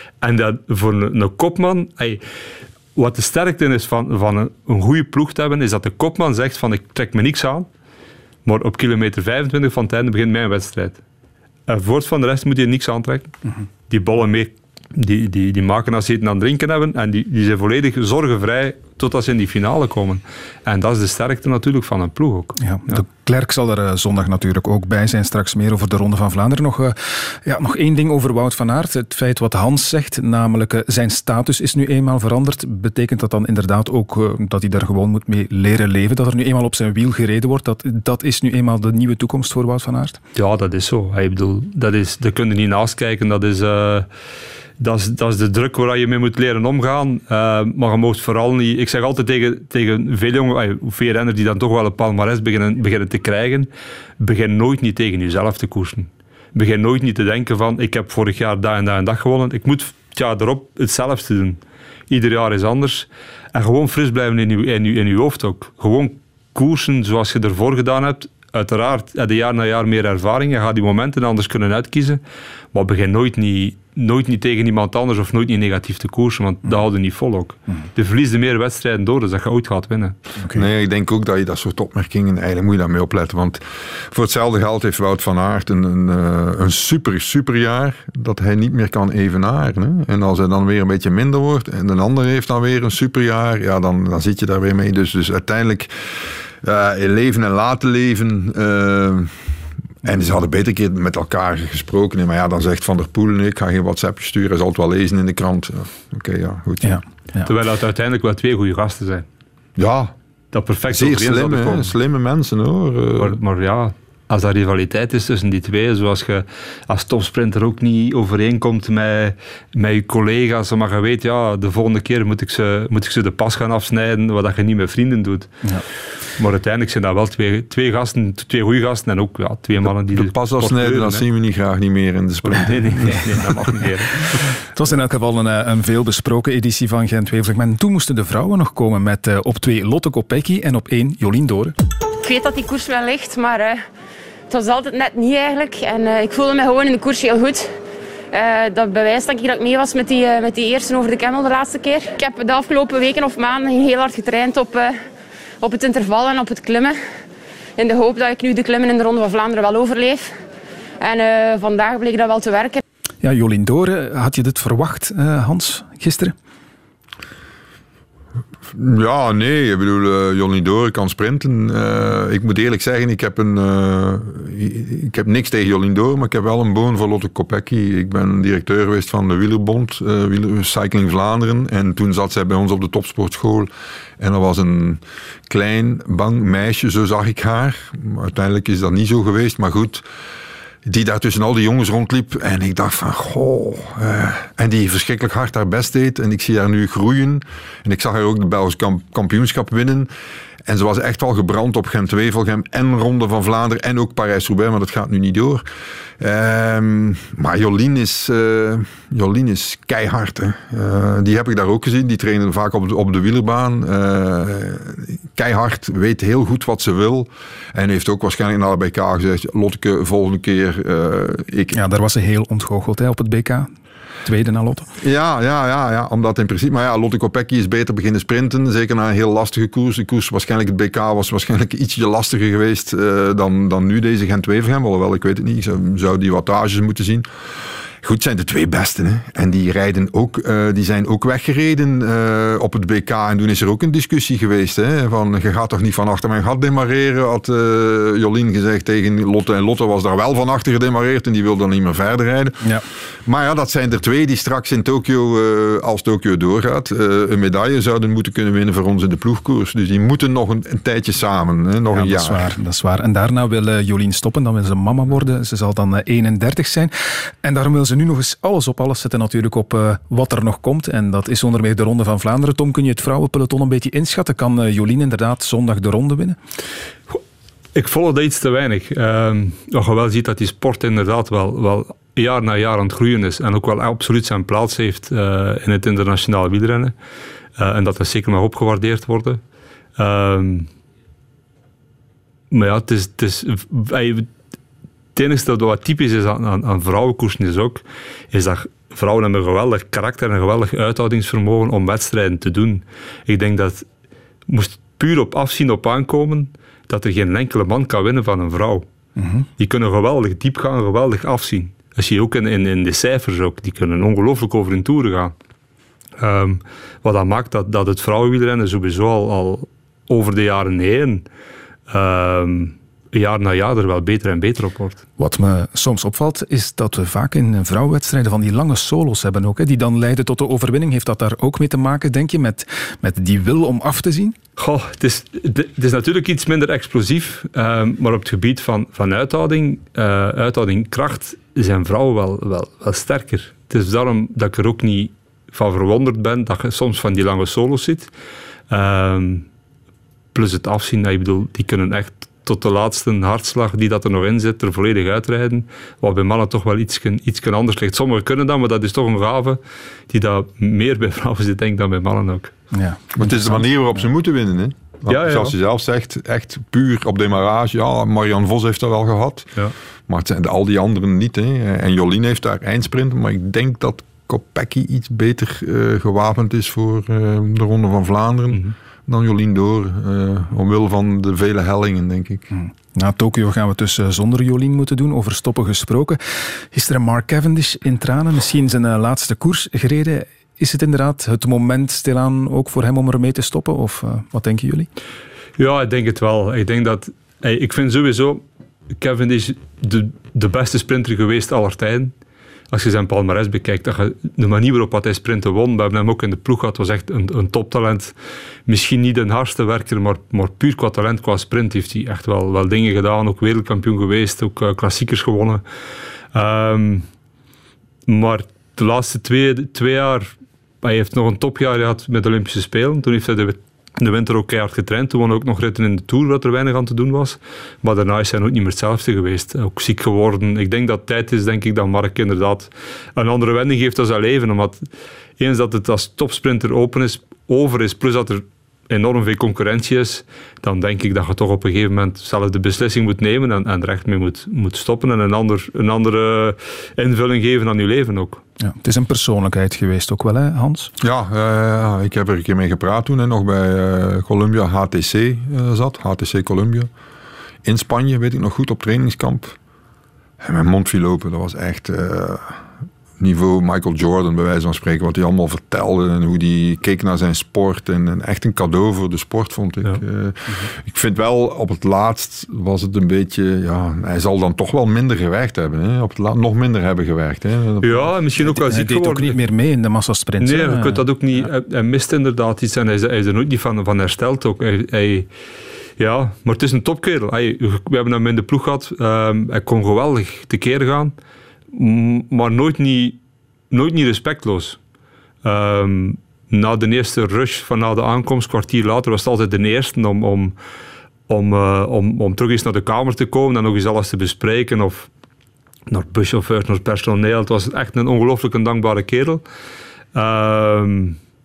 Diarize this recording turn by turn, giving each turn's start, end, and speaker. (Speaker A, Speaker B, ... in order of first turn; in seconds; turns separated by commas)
Speaker A: 0.2-2.2, Speaker A: 3.0-7.7, Speaker A: 8.5-11.0, Speaker A: 11.7-13.3, Speaker A: 13.9-23.0, Speaker B: 22.6-40.2, Speaker A: 40.4-44.1, Speaker A: 44.8-72.2, Speaker A: 72.7-80.2, Speaker B: 80.4-80.7, Speaker C: 80.5-95.9, Speaker C: 96.6-99.3, Speaker C: 100.0-107.0, Speaker B: 106.8-107.5, Speaker A: 107.5-109.3, Speaker C: 109.8-110.1, Speaker A: 110.5-111.9, Speaker C: 110.9-113.4, Speaker A: 113.2-125.5, Speaker A: 126.4-131.2, Speaker C: 129.8-133.8, Speaker A: 132.4-134.4, Speaker B: 134.8-141.7, Speaker D: 142.2-143.8, Speaker D: 144.5-147.7, Speaker D: 148.3-155.0, Speaker D: 155.6-157.0, Speaker D: 157.8-160.3, Speaker D: 161.0-162.8, Speaker B: 163.2-166.3, Speaker C: 168.7-190.0, Speaker C: 190.8-200.1, Speaker C: 200.7-205.7, Speaker C: 206.2-221.8, Speaker B: 221.7-223.7, Speaker B: 224.2-224.9, Speaker C: 225.0-237.2, Speaker C: 238.0-252.7, Speaker C: 253.3-262.6, Speaker B: 261.9-266.9, Speaker B: 267.4-276.4, Speaker A: 277.8-286.9, Speaker A: 287.6-289.4, Speaker A: 290.0-290.7, Speaker A: 292.5-294.3, Speaker A: 295.1-303.9, Speaker A: 304.5-308.9, Speaker B: 309.2-309.5, Speaker A: 309.6-315.3, Speaker A: 316.2-321.2, Speaker A: 321.9-325.0, Speaker B: 325.2-334.4, Speaker A: 334.6-348.1, Speaker A: 348.7-349.5, Speaker A: 350.3-362.5, Speaker B: 362.7-364.1, Speaker C: 363.2-369.5, Speaker A: 365.1-365.6, Speaker C: 370.1-382.5, Speaker B: 382.5-394.9, Speaker A: 395.6-398.4, Speaker A: 399.0-402.1, Speaker A: 402.7-408.1, Speaker A: 408.7-415.6, Speaker A: 416.3-417.1, Speaker A: 418.1-434.9, Speaker A: 435.4-448.4, Speaker B: 448.6-450.9, Speaker C: 451.0-456.9, Speaker C: 457.6-459.6, Speaker C: 460.4-462.6, Speaker C: 463.2-478.1, Speaker A: 477.8-479.4, Speaker B: 478.4-481.1, Speaker A: 480.4-485.3, Speaker A: 486.0-491.1, Speaker A: 491.7-493.2, Speaker A: 493.7-494.8, Speaker A: 495.4-500.6, Speaker A: 501.3-505.1, Speaker A: 505.9-509.4, Speaker A: 510.1-511.2